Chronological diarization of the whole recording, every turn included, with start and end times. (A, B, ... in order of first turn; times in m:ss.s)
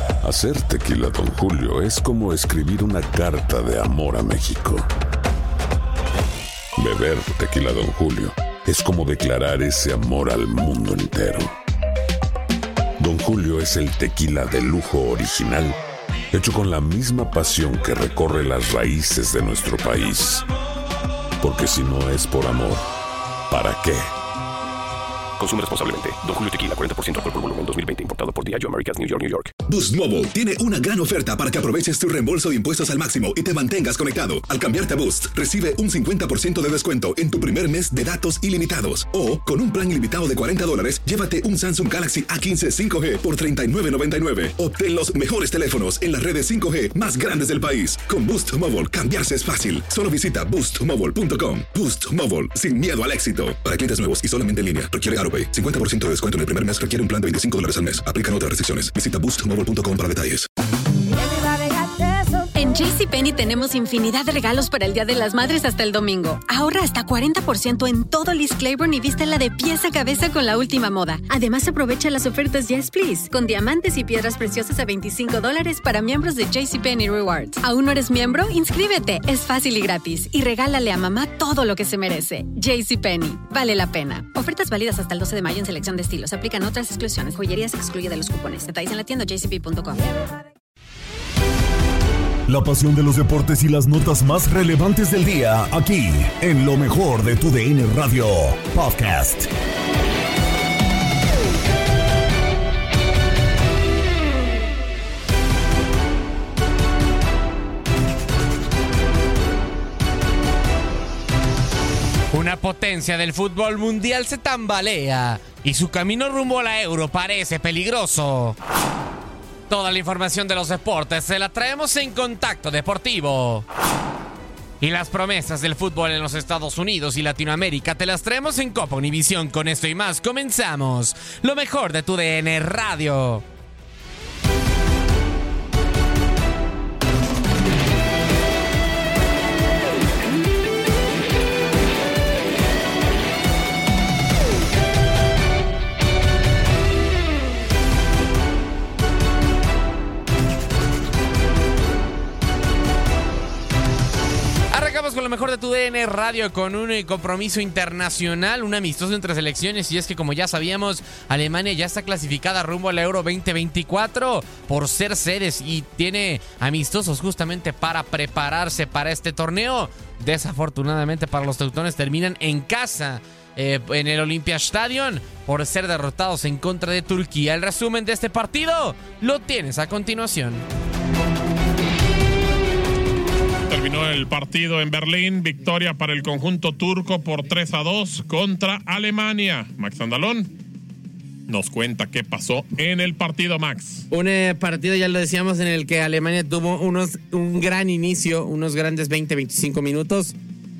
0:00.2-0:04.8 A
0:06.8-0:11.5 A
0:13.0-0:15.8 A
0:16.3-0:20.4 A
0:21.4-0:22.8 A
0:23.5-0:24.0 A
0:25.4-0:29.5 B
0:29.7-1:00.5 C
1:02.5-1:30.0 D
1:32.5-1:39.5 E
1:52.4-1:58.5 F
1:57.8-1:58.0 G
1:59.7-2:03.6 F
1:59.9-2:01.5 G
2:04.8-2:05.9 G
2:04.8-2:13.3 F
2:07.3-2:09.2 G
2:09.7-2:10.9 G
2:11.6-2:13.2 G
2:34.8-3:00.6 F
3:03.7-3:10.5 H
3:11.5-3:14.0 H
3:14.1-3:20.3 G